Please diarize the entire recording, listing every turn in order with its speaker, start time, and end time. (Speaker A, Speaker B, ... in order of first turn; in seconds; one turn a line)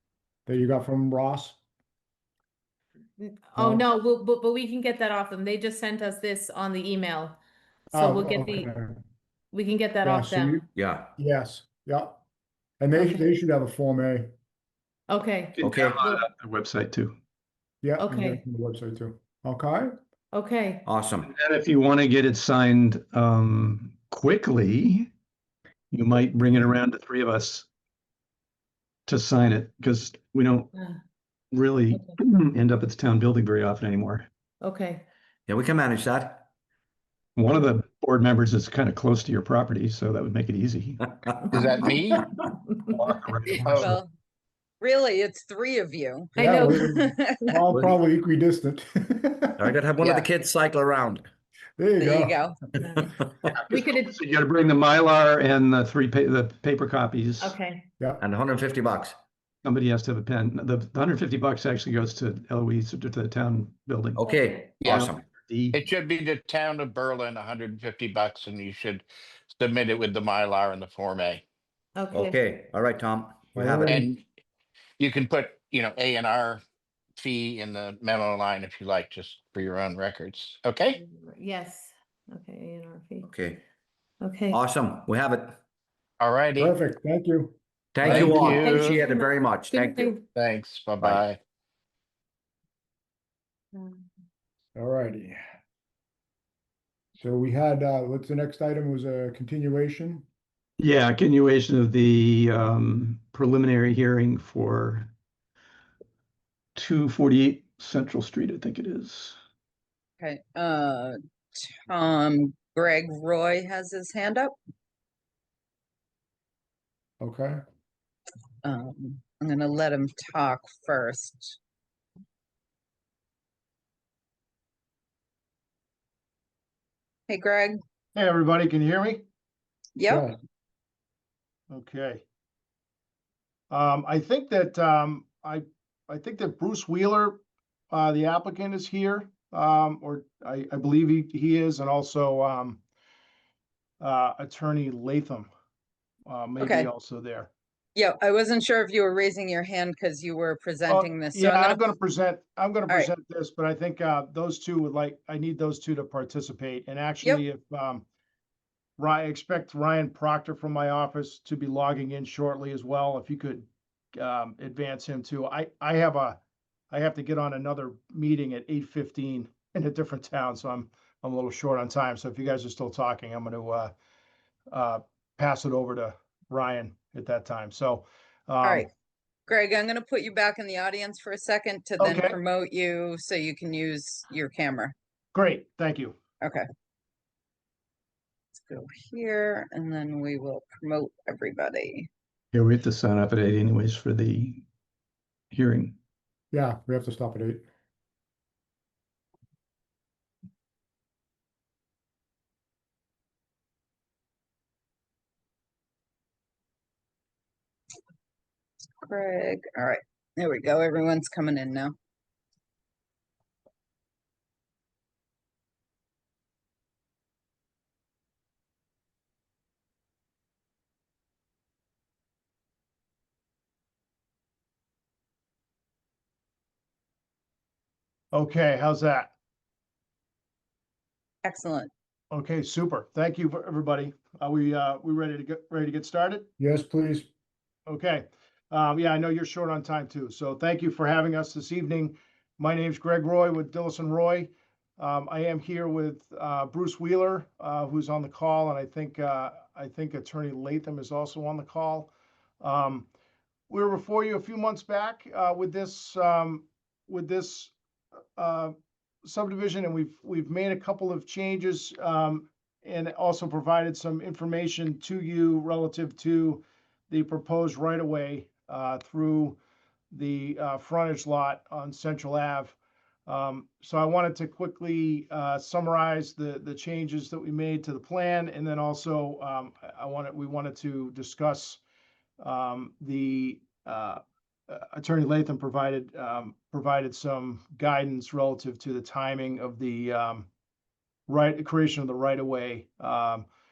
Speaker A: 0.5-1.6
Speaker B: 3.2-7.4
Speaker A: 3.6-3.9
Speaker A: 7.9-9.0
Speaker B: 7.9-8.7
Speaker B: 9.5-10.7
Speaker A: 10.0-10.7
Speaker C: 10.8-11.1
Speaker A: 11.2-12.2
Speaker A: 12.8-14.3
Speaker B: 12.9-13.3
Speaker B: 15.1-16.2
Speaker C: 15.6-16.0
Speaker D: 15.6-17.2
Speaker A: 17.8-19.9
Speaker B: 18.0-18.4
Speaker B: 20.3-20.8
Speaker C: 20.9-21.3
Speaker D: 21.2-25.1
Speaker D: 25.9-27.7
Speaker D: 29.1-30.7
Speaker D: 31.5-34.3
Speaker B: 34.6-35.0
Speaker C: 35.5-36.5
Speaker D: 37.4-41.2
Speaker B: 41.5-41.9
Speaker E: 41.5-42.1
Speaker D: 42.9-43.9
Speaker F: 43.6-44.1
Speaker F: 44.8-47.6
Speaker B: 46.4-46.9
Speaker A: 46.4-49.7
Speaker C: 47.7-48.0
Speaker C: 49.6-51.3
Speaker A: 51.8-52.4
Speaker F: 52.0-53.0
Speaker B: 52.8-53.1
Speaker D: 53.6-57.5
Speaker B: 53.7-54.2
Speaker B: 57.4-57.9
Speaker C: 58.2-59.2
Speaker D: 59.6-64.2
Speaker C: 64.2-65.2
Speaker B: 64.2-64.5
Speaker D: 64.8-65.8
Speaker E: 65.8-71.4
Speaker B: 72.0-72.4
Speaker C: 72.1-74.0
Speaker A: 73.5-74.1
Speaker E: 75.0-76.6
Speaker E: 77.2-80.9
Speaker B: 81.0-83.3
Speaker C: 83.2-83.6
Speaker B: 84.2-84.6
Speaker C: 84.5-85.6
Speaker E: 86.2-86.5
Speaker A: 86.6-87.6
Speaker C: 88.0-90.2
Speaker B: 88.0-90.2
Speaker E: 88.2-89.0
Speaker E: 90.4-91.4
Speaker A: 94.8-95.4
Speaker A: 97.2-100.2
Speaker D: 100.8-105.1
Speaker D: 106.8-109.4
Speaker F: 110.2-114.5
Speaker A: 117.2-117.6
Speaker F: 118.6-121.6
Speaker F: 127.3-127.8
Speaker G: 128.1-129.2
Speaker F: 130.0-130.3
Speaker A: 130.1-130.3
Speaker G: 131.7-132.2
Speaker G: 133.7-142.8
Speaker G: 144.0-145.5
Speaker G: 146.2-147.5
Speaker F: 146.6-146.9
Speaker F: 147.9-151.8
Speaker G: 150.9-158.0
Speaker G: 159.0-166.4
Speaker G: 166.9-173.9
Speaker G: 174.7-178.9
Speaker F: 178.6-178.9
Speaker F: 179.5-184.9
Speaker G: 182.0-182.4
Speaker G: 185.3-186.2
Speaker F: 188.5-192.1
Speaker D: 192.5-194.6
Speaker D: 195.5-195.9
Speaker A: 196.5-197.6
Speaker F: 209.0-211.9
Speaker G: 228.3-229.3
Speaker F: 231.4-231.9
Speaker G: 232.3-236.5
Speaker A: 236.6-237.3
Speaker G: 237.9-253.1
Speaker G: 253.7-257.7
Speaker G: 258.4-269.6
Speaker G: 270.1-272.8
Speaker G: 273.3-281.8
Speaker G: 282.4-290.5
Speaker G: 291.3-293.5